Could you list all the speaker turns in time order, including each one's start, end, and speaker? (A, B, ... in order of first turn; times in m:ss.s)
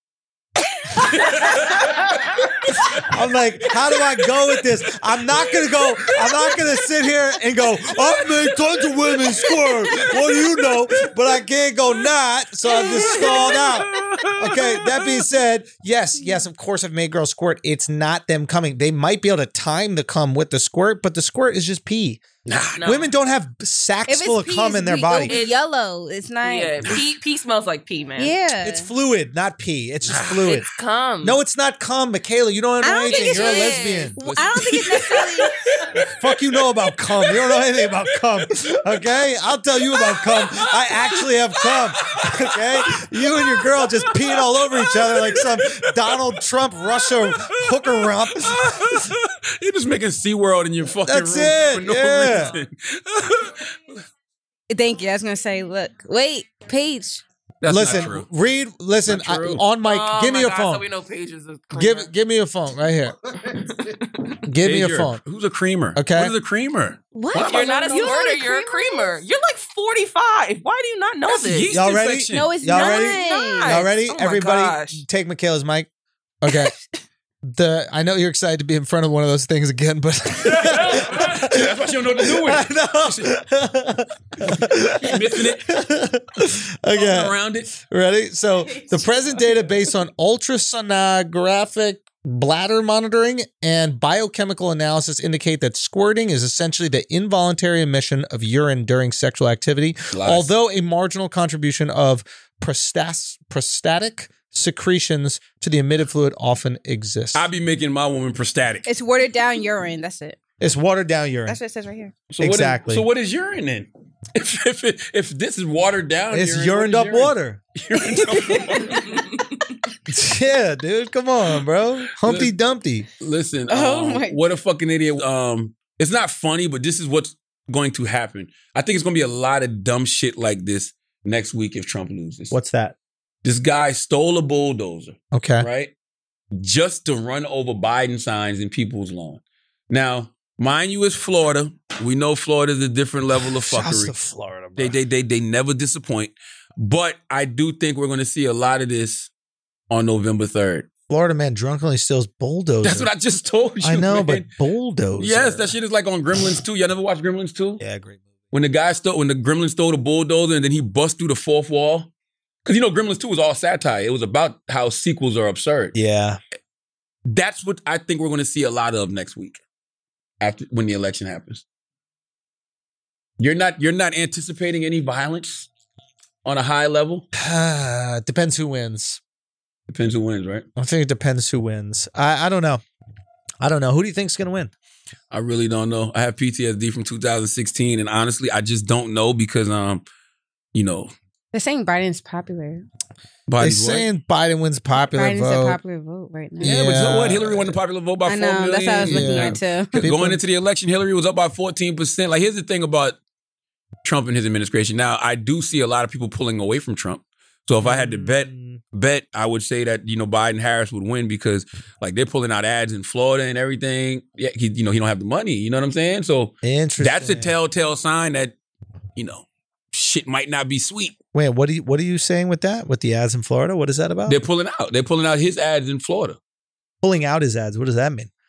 0:01.0-0:03.0 A
0:03.0-0:22.3 B
0:12.8-0:14.8 A
0:22.5-0:22.9 A
0:22.8-0:23.1 C
0:22.8-0:25.3 B
0:24.1-0:26.8 D
0:25.3-0:25.6 C
0:26.4-0:28.4 C
0:28.2-0:28.9 D
0:28.6-0:30.7 B
0:30.0-0:30.6 A
0:30.6-0:31.4 C
0:31.2-0:34.2 B
0:32.8-0:35.5 D
0:33.1-0:34.2 C
0:34.2-0:36.4 A
0:36.2-0:49.1 B
0:37.2-0:37.6 A
0:38.2-0:38.5 A
0:40.4-0:40.6 A
0:41.7-0:46.2 A
0:46.9-0:54.0 A
0:51.1-0:52.5 B
0:54.7-0:57.2 D
0:57.6-0:58.3 A
0:57.7-1:00.9 B
0:59.1-0:59.7 A
0:59.8-1:02.1 C
1:01.7-1:03.2 B
1:03.5-1:04.4 C
1:04.5-1:05.2 B
1:04.6-1:08.1 A
1:06.0-1:06.3 B
1:07.1-1:09.2 D
1:07.3-1:11.8 C
1:11.3-1:12.6 A
1:11.7-1:15.9 B
1:12.3-1:13.8 D
1:12.7-1:15.0 C
1:16.4-1:16.7 B
1:17.4-1:47.5 B
1:20.4-1:23.3 A
1:24.4-1:25.8 A
1:26.9-1:27.7 A
1:40.1-1:40.5 A
1:47.3-1:48.9 A
1:48.9-1:50.4 D
1:50.6-1:51.6 B
1:51.5-1:52.1 D
1:52.3-1:59.1 A
1:52.4-1:53.0 B
1:56.3-1:57.6 B
1:58.5-1:59.0 D
1:59.0-1:59.3 C
2:00.1-2:03.1 B
2:02.2-2:02.5 A
2:03.2-2:12.6 A
2:03.7-2:04.4 D
2:12.5-2:13.0 B
2:13.4-2:15.9 A
2:15.3-2:15.7 B
2:16.5-2:24.1 A
2:23.6-2:25.0 B
2:24.8-2:29.3 A
2:29.9-2:30.9 A
2:31.1-2:33.1 B
2:32.8-2:34.5 A
2:33.8-2:35.7 B
2:35.2-2:37.8 A
2:37.8-2:38.3 B
2:38.5-2:42.1 A
2:42.7-2:46.0 A
2:45.9-2:46.4 B
2:47.3-2:49.6 A
2:50.4-2:51.6 A
2:53.4-2:55.7 A
2:56.4-2:57.3 A
2:57.4-2:59.2 B
2:59.9-3:00.6 A
3:00.8-3:02.8 B
3:03.6-3:04.7 B
3:05.3-3:10.0 A
3:10.7-3:11.1 A
3:11.5-3:12.9 D
3:13.5-3:14.1 A
3:13.6-3:15.8 B
3:15.0-3:16.8 D
3:16.6-3:17.8 B
3:16.6-3:23.2 A
3:18.3-3:20.0 D
3:19.0-3:20.4 B
3:24.0-3:38.6 A
3:27.8-3:28.8 B
3:36.6-3:37.5 B
3:39.2-3:41.2 A
3:41.3-3:44.4 B
3:44.3-3:46.4 A
3:47.0-3:48.3 B